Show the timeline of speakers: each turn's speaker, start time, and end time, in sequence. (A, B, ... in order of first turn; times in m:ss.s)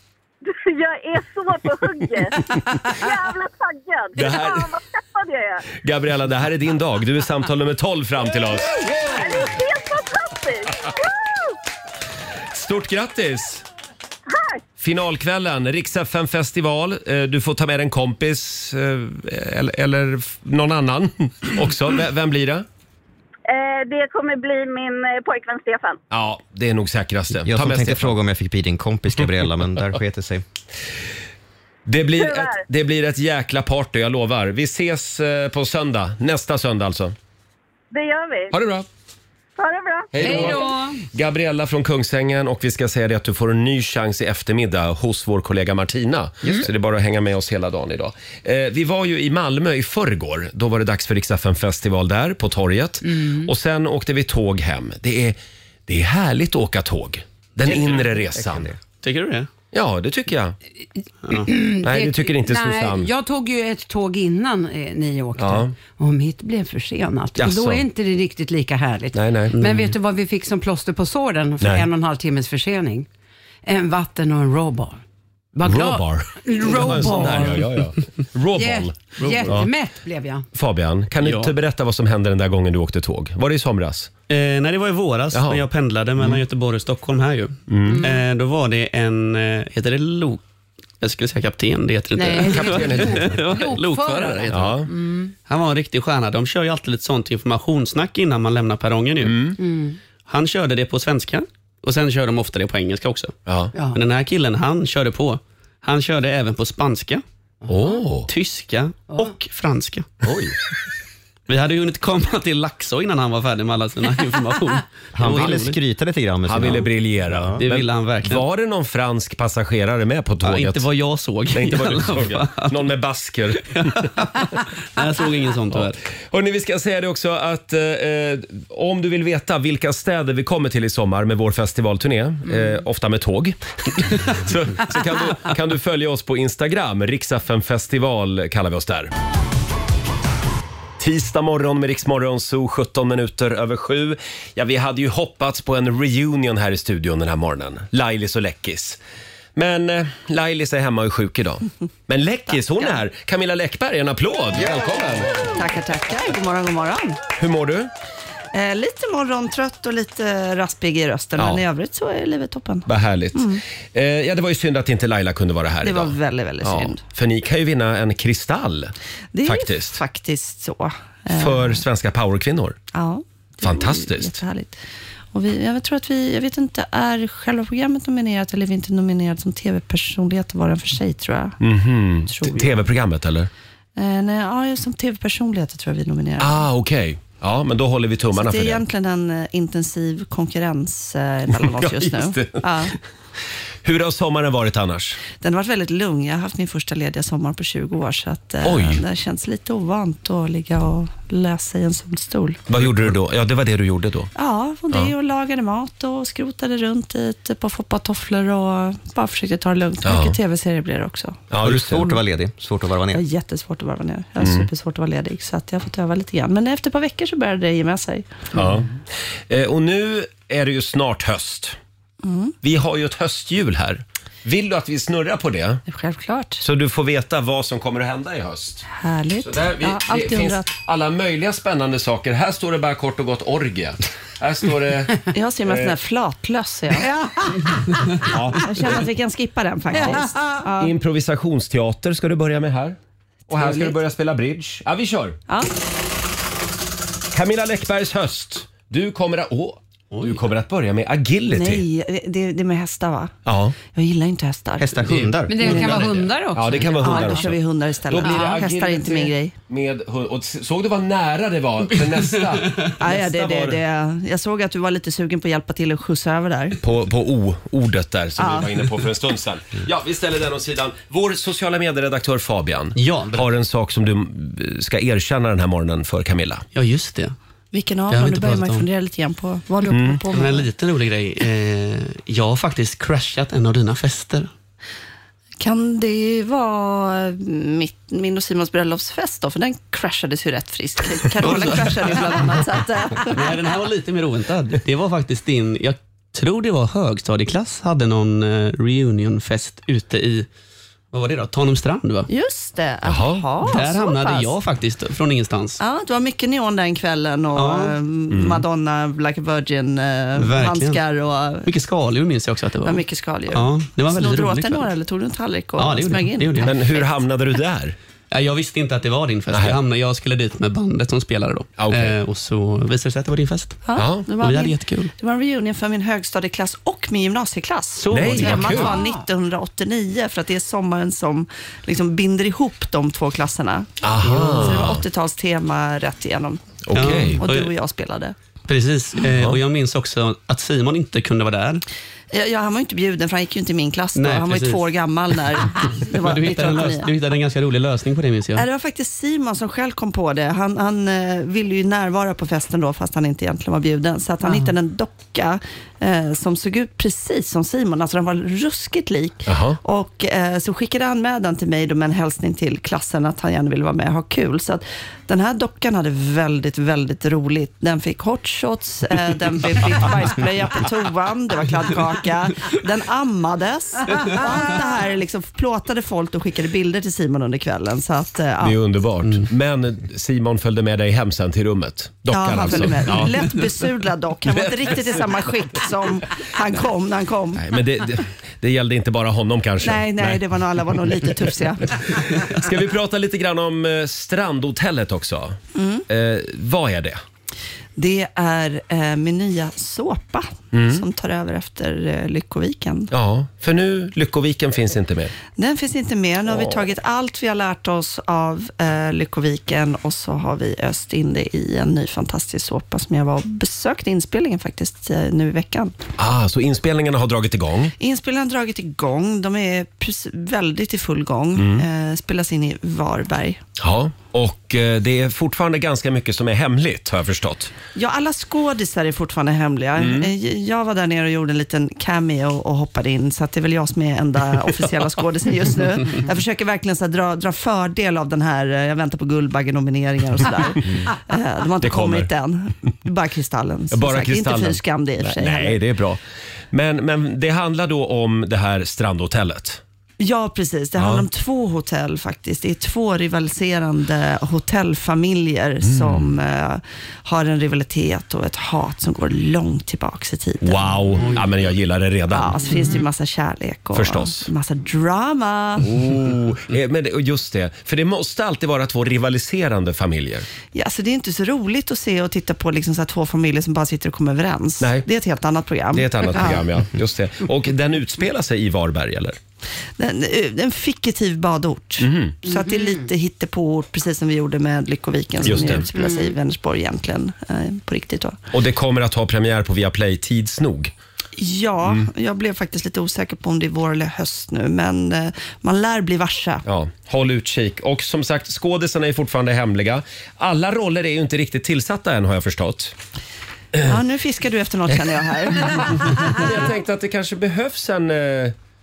0:00.4-0:05.6 A
0:04.2-0:04.7 B
0:05.8-0:08.9 B
0:08.8-0:11.4 A
0:12.5-0:13.6 B
0:14.3-0:14.6 A
0:14.8-0:22.6 B
0:23.5-0:26.0 A
0:26.1-0:28.2 B
0:27.4-0:30.4 C
0:31.9-0:37.1 B
0:32.1-0:32.6 A
0:37.9-0:38.5 A
0:38.5-0:38.9 B
0:39.6-0:40.5 A
0:40.1-0:58.7 B
0:40.2-0:41.0 D
0:53.0-0:53.5 D
0:58.3-0:58.8 C
0:59.0-0:59.5 E
0:59.7-1:00.6 B
1:01.3-1:13.1 D
1:01.8-1:03.1 B
1:05.4-1:05.7 B
1:07.4-1:07.8 B
1:09.1-1:09.6 B
1:09.5-1:09.9 E
1:11.6-1:11.9 B
1:13.6-1:15.0 D
1:15.6-1:17.6 D
1:15.6-1:19.7 B
1:18.6-1:20.4 D
1:19.2-1:19.6 E
1:20.6-1:24.1 B
1:21.2-1:21.5 E
1:24.3-1:30.4 E
1:25.3-1:25.6 B
1:27.7-1:28.1 B
1:27.9-1:28.2 D
1:31.0-1:34.9 E
1:32.2-1:35.3 D
1:32.4-1:33.4 B
1:34.5-1:34.9 B
1:35.4-1:39.5 E
1:39.2-1:39.6 B
1:39.6-1:40.0 D
1:40.3-1:43.3 E
1:43.5-1:43.7 B
1:43.7-1:44.0 D
1:43.9-1:47.2 E
1:47.7-1:48.3 B
1:48.3-1:50.1 E
1:50.2-1:50.6 C
1:51.5-1:55.8 E
1:55.1-1:57.6 C
1:56.4-2:00.9 B
1:57.6-1:58.4 E
2:00.4-2:02.9 E
2:01.5-2:04.2 B
2:03.7-2:06.0 E
2:05.7-2:19.1 B
2:21.0-2:29.0 B
2:29.6-2:35.5 B
2:35.5-2:37.2 F
2:37.4-2:37.9 B
2:38.5-2:43.6 F
2:41.4-2:41.6 B
2:42.9-2:48.9 B
2:45.8-2:47.0 F
2:49.3-2:51.8 F
2:49.4-2:50.0 B
2:51.4-2:52.8 B
2:52.9-2:54.8 F
2:53.6-2:54.4 B
2:55.3-3:01.6 F
3:01.6-3:03.5 B
3:02.3-3:02.7 F
3:04.0-3:06.6 F
3:06.4-3:08.8 B
3:08.3-3:12.9 F
3:11.5-3:12.6 B
3:13.8-3:15.2 B
3:15.4-3:22.6 F
3:18.6-3:19.0 B
3:22.7-3:24.3 B
3:24.4-3:31.4 F
3:30.0-3:30.4 B
3:31.5-3:32.1 B
3:31.6-3:33.2 C
3:33.1-3:38.6 F
3:34.4-3:34.7 B
3:38.5-3:38.9 B
3:39.5-3:41.8 B
3:42.2-3:42.6 F
3:42.6-3:45.8 B
3:45.9-3:46.6 F
3:46.6-3:48.9 B
3:48.9-3:50.7 F
3:49.4-3:55.9 B
3:55.3-3:57.1 F
3:58.2-3:59.0 B
3:58.3-4:00.9 F
4:00.8-4:03.0 B
4:03.5-4:05.4 B
4:03.5-4:03.9 F
4:07.3-4:11.8 B
4:10.1-4:10.4 E
4:11.5-4:13.3 F
4:13.4-4:13.8 B
4:13.9-4:16.1 F
4:14.8-4:16.0 C
4:15.5-4:17.5 D
4:16.5-4:23.8 B
4:17.0-4:19.5 F
4:18.2-4:18.6 D
4:22.5-4:22.9 E
4:23.0-4:26.8 F
4:26.8-4:36.6 B
4:28.4-4:28.9 F
4:33.0-4:33.5 E
4:36.8-4:37.4 E
4:37.7-4:40.7 F
4:38.1-4:38.9 E
4:39.9-4:40.2 B
4:40.3-4:44.5 E
4:45.6-4:53.4 F
4:51.4-4:52.4 E
4:53.3-5:00.5 E
5:01.1-5:02.3 E
5:02.3-5:04.5 F
5:03.0-5:03.5 B
5:03.6-5:05.8 E
5:05.8-5:11.7 F
5:07.6-5:08.0 E
5:08.3-5:08.6 B
5:10.4-5:11.0 E
5:11.6-5:14.9 E
5:12.8-5:17.0 F
5:15.8-5:16.7 E
5:16.6-5:18.0 B
5:18.3-5:23.8 E
5:21.8-5:22.2 B
5:23.8-5:33.9 F
5:24.0-5:24.3 B
5:24.4-5:25.1 E
5:28.0-5:28.9 E
5:28.1-5:28.9 B
5:28.4-5:29.2 D
5:34.0-5:35.0 B
5:34.2-5:34.9 E
5:34.5-5:38.4 F
5:36.9-5:37.4 B
5:36.9-5:37.7 E
5:38.7-5:41.8 E
5:42.3-5:47.1 F
5:44.1-5:44.8 E
5:46.1-5:48.6 E
5:48.6-6:18.8 F
5:59.5-5:59.8 B
6:18.6-6:23.5 B
6:22.3-6:27.6 F
6:24.5-6:25.1 B
6:27.6-6:30.4 B
6:29.8-6:32.2 F
6:32.1-6:35.6 B
6:35.8-6:36.0 F
6:36.1-6:37.2 B
6:38.0-6:43.1 F
6:40.7-6:41.0 B
6:43.1-6:45.4 B
6:45.6-6:55.9 F
6:46.5-6:46.8 B
6:56.2-6:57.9 B
6:58.0-7:03.6 F
7:01.6-7:01.8 B
7:03.8-7:07.7 B
7:07.9-7:25.8 F
7:10.0-7:10.3 B
7:21.8-7:22.3 B
7:23.9-7:26.2 B
7:26.7-7:29.8 B
7:30.2-7:40.9 F
7:31.0-7:31.2 B
7:35.8-7:36.3 B
7:40.6-7:42.7 B
7:42.3-7:45.9 F
7:43.9-7:44.5 B
7:45.8-7:50.5 B
7:50.7-7:56.6 F
7:54.8-7:55.1 B
7:55.9-7:59.4 B
8:00.0-8:08.4 F
8:02.0-8:02.4 B
8:02.5-8:02.9 D
8:05.4-8:05.9 B
8:08.5-8:10.9 B
8:11.4-8:16.6 F
8:16.6-8:22.9 B
8:23.8-8:26.4 F
8:25.7-8:28.6 B